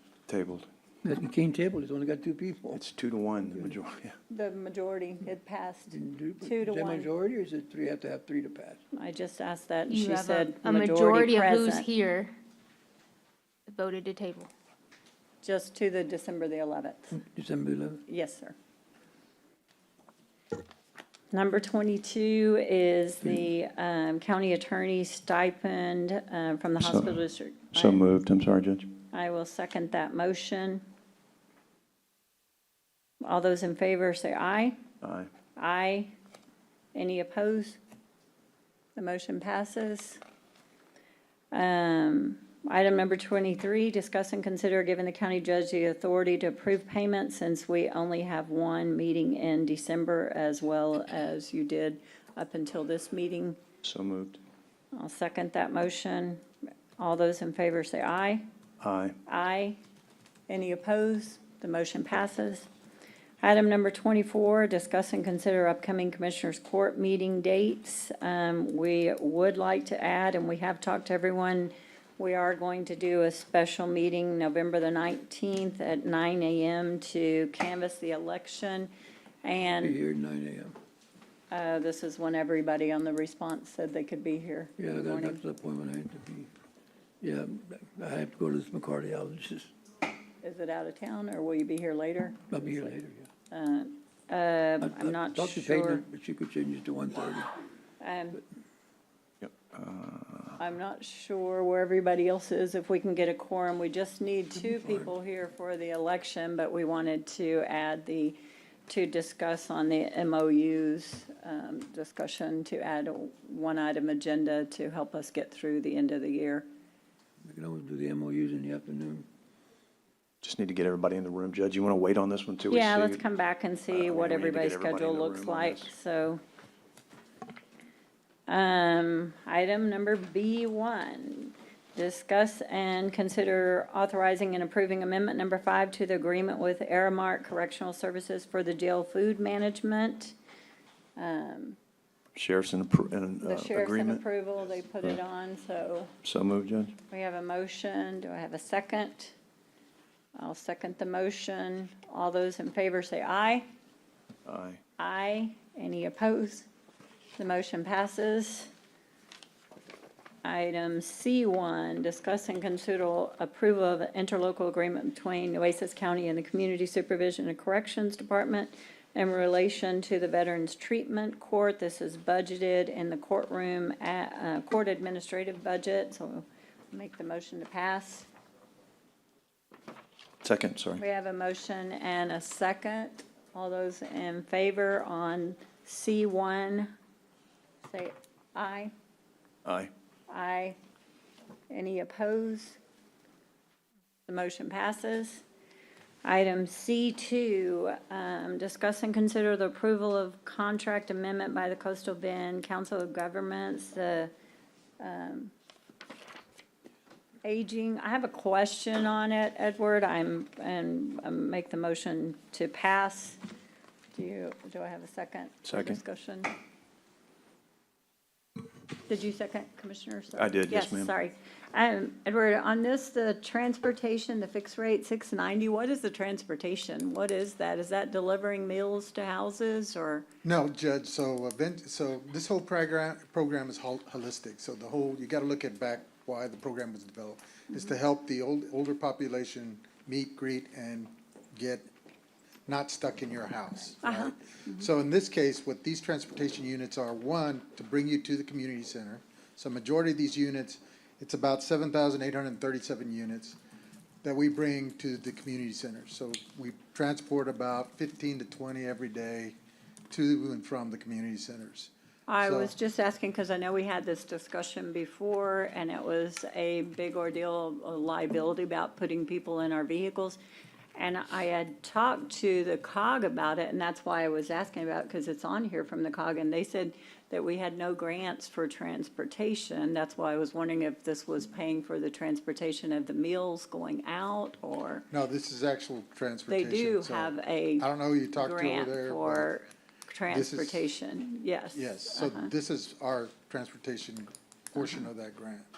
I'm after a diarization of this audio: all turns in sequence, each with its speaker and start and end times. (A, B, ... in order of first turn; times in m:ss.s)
0:00.3-0:00.7 A
0:01.0-0:02.8 B
0:02.7-0:04.2 A
0:04.3-0:07.1 C
0:05.9-0:08.8 B
0:08.9-0:11.9 C
0:09.9-0:12.3 D
0:13.7-0:14.5 D
0:15.4-0:17.2 C
0:17.1-0:18.0 B
0:18.1-0:18.5 C
0:21.3-0:28.0 C
0:26.8-0:27.2 A
0:27.7-0:28.9 A
0:29.1-0:30.8 C
0:33.2-0:34.8 C
0:35.0-0:35.3 A
0:35.6-0:36.1 C
0:36.9-0:37.8 C
0:39.0-0:40.2 C
0:41.5-0:53.6 C
0:53.8-0:54.4 A
0:54.9-0:56.4 C
0:57.0-0:58.4 C
0:58.8-0:59.2 A
0:59.3-0:59.8 C
1:00.5-1:02.7 C
1:03.4-1:18.9 C
1:19.4-1:20.0 C
1:19.8-1:20.7 B
1:21.5-1:25.4 C
1:24.8-1:26.5 B
1:27.2-1:29.7 B
1:30.4-1:33.0 C
1:32.5-1:33.3 B
1:33.5-1:36.0 C
1:34.8-1:37.5 B
1:38.0-1:38.4 C
1:39.4-1:40.6 A
1:40.6-1:56.7 C
1:44.7-1:45.1 B
1:57.4-1:59.2 B
2:00.4-2:03.2 A
2:02.7-2:06.4 C
2:03.9-2:05.9 A
2:08.5-2:20.4 C
2:21.2-2:21.8 C
2:22.3-2:24.2 A
2:23.4-2:26.1 C
2:26.2-2:27.0 A
2:27.1-2:29.3 C
2:30.3-2:33.7 C
2:34.4-2:34.8 A
2:35.0-2:36.7 C
2:37.4-2:38.7 C
2:40.4-2:58.3 C
3:00.4-3:01.0 A
3:01.0-3:06.9 C
3:07.8-3:08.9 C
3:09.6-3:09.9 A
3:10.3-3:10.8 C
3:11.7-3:12.8 C
3:14.3-3:15.4 C
3:16.2-3:24.3 C
3:25.0-3:25.5 C
3:27.4-3:33.4 C
3:34.1-3:36.5 C
3:35.6-3:36.0 A
3:39.1-3:50.3 C
3:40.4-3:41.1 A
3:50.4-4:01.8 E
4:02.7-4:13.6 E
4:04.0-4:04.8 C
4:14.2-4:19.6 E
4:20.1-4:22.7 E
4:22.3-4:30.4 C
4:31.0-4:45.1 C
4:45.1-4:49.5 E
4:46.5-4:52.5 C
4:50.3-4:50.8 E
4:51.7-4:55.7 E
4:54.8-4:55.0 C